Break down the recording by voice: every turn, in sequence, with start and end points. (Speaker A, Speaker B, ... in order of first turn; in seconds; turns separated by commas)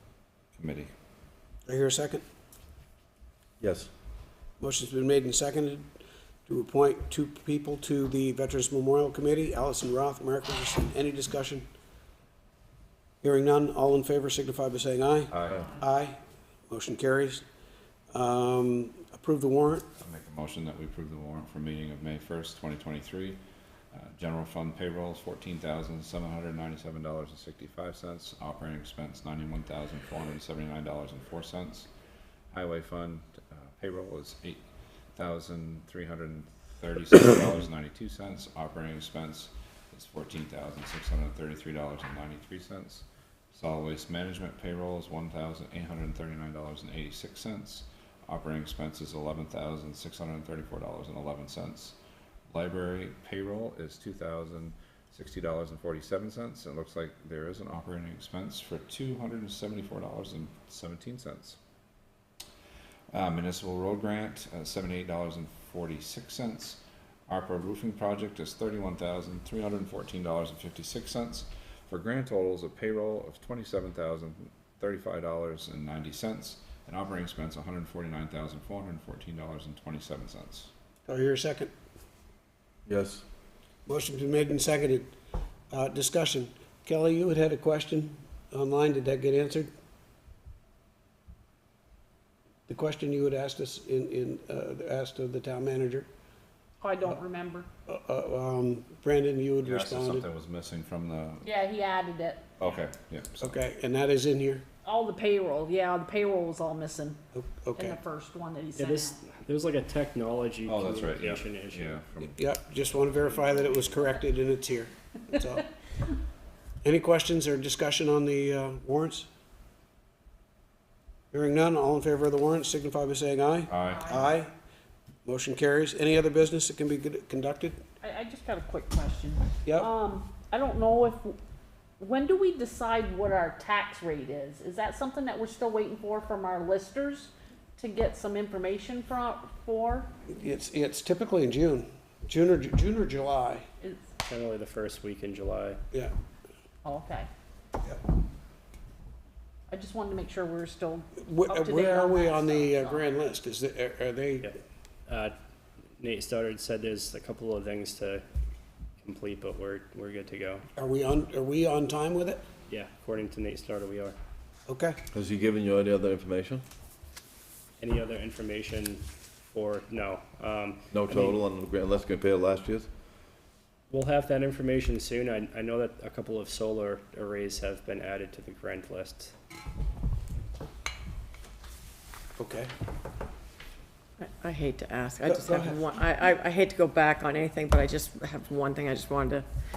Speaker A: 0.5-0.9, Speaker B: 1.7-2.2, Speaker C: 3.6-3.9, Speaker B: 4.6-5.9, Speaker B: 6.5-11.7, Speaker B: 13.2-16.2, Speaker A: 15.3-15.7, Speaker B: 16.7-17.4, Speaker B: 18.1-19.9, Speaker A: 20.0-23.4, Speaker A: 23.9-31.9, Speaker A: 32.5-34.6, Speaker A: 35.1-52.0, Speaker A: 52.5-61.6, Speaker A: 63.1-80.7, Speaker B: 81.1-81.7, Speaker C: 82.9-83.2, Speaker B: 83.8-85.1, Speaker B: 85.7-89.7, Speaker B: 92.7-96.1, Speaker D: 96.8-97.7, Speaker B: 97.9-100.2, Speaker A: 99.6-101.5, Speaker D: 101.4-102.4, Speaker A: 102.6-103.5, Speaker B: 103.4-104.6, Speaker D: 104.8-107.2, Speaker B: 107.3-108.0, Speaker D: 107.8-109.2, Speaker E: 108.8-112.0, Speaker A: 110.7-112.4, Speaker B: 112.4-115.6, Speaker E: 113.3-113.7, Speaker B: 116.8-119.3, Speaker B: 121.3-124.5, Speaker A: 123.7-124.2, Speaker B: 125.2-127.8, Speaker D: 128.0-131.4, Speaker B: 129.6-129.9, Speaker D: 132.0-140.1, Speaker B: 140.3-143.6, Speaker E: 144.3-145.8, Speaker D: 146.8-147.3, Speaker D: 149.7-153.0, Speaker B: 151.2-154.5, Speaker E: 155.1-155.3, Speaker E: 156.0-158.2, Speaker E: 159.0-160.6, Speaker B: 160.8-162.4, Speaker E: 162.7-164.2, Speaker B: 164.7-165.0, Speaker C: 165.1-166.6, Speaker E: 167.8-171.4, Speaker C: 170.9-172.9, Speaker E: 173.9-179.3, Speaker B: 182.4-182.7, Speaker F: 184.2-189.4, Speaker B: 185.2-185.8